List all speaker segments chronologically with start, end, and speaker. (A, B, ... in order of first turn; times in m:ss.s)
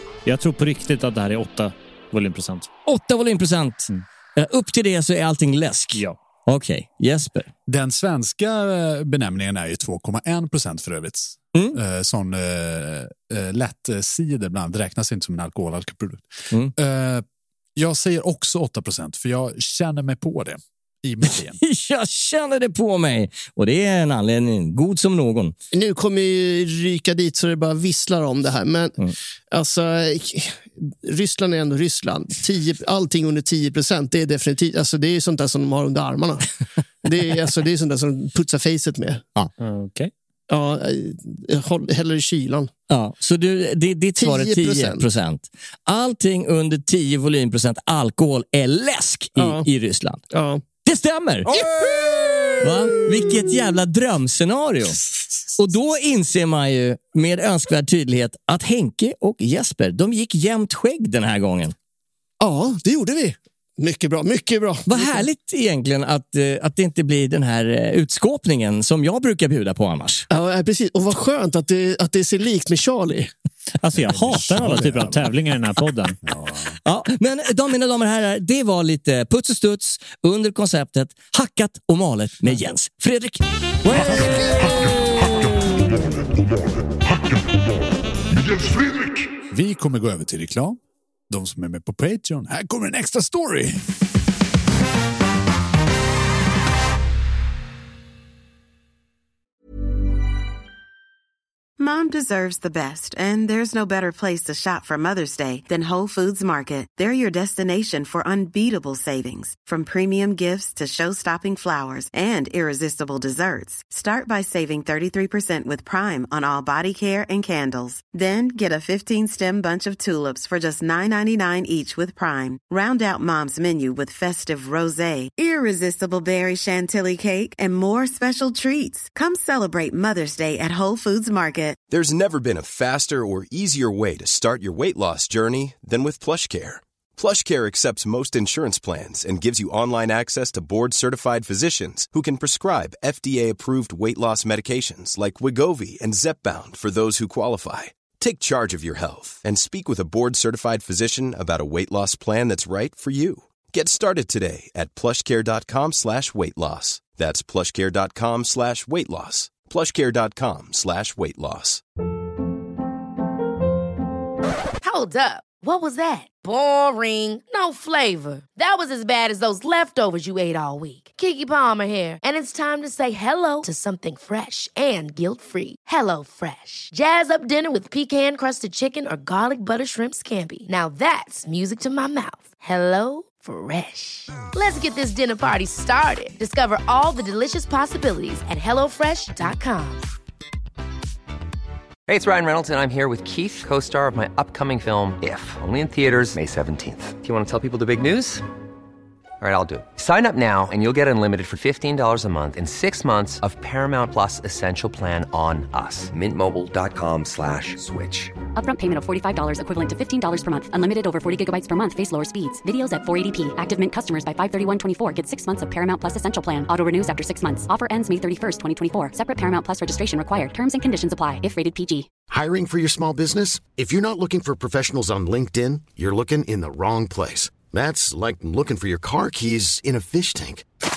0:00.2-0:02.7 A
0:02.8-0:07.5 B
0:07.7-0:17.2 C
0:17.8-0:21.6 C
0:21.2-0:25.5 B
0:25.7-0:29.0 D
0:29.5-0:39.2 D
0:39.6-0:40.1 A
0:40.5-0:42.7 D
0:42.9-0:50.2 B
0:44.2-0:45.0 D
0:49.4-0:49.6 D
0:50.3-0:50.6 D
0:50.8-0:51.6 B
0:51.5-0:52.5 D
0:51.5-0:53.5 C
0:52.6-0:55.0 B
0:55.5-1:01.7 B
1:02.4-1:05.2 D
1:04.9-1:10.3 B
1:10.3-1:13.3 D
1:13.8-1:16.2 A
1:14.0-1:15.3 C
1:16.2-1:16.7 C
1:16.8-1:24.7 B
1:28.5-1:33.8 C
1:41.8-2:11.8 E
2:11.9-2:41.8 F
2:44.8-3:10.0 G
3:12.1-3:18.4 H
3:19.4-3:28.4 H
3:28.5-3:42.1 I
3:42.3-3:50.6 J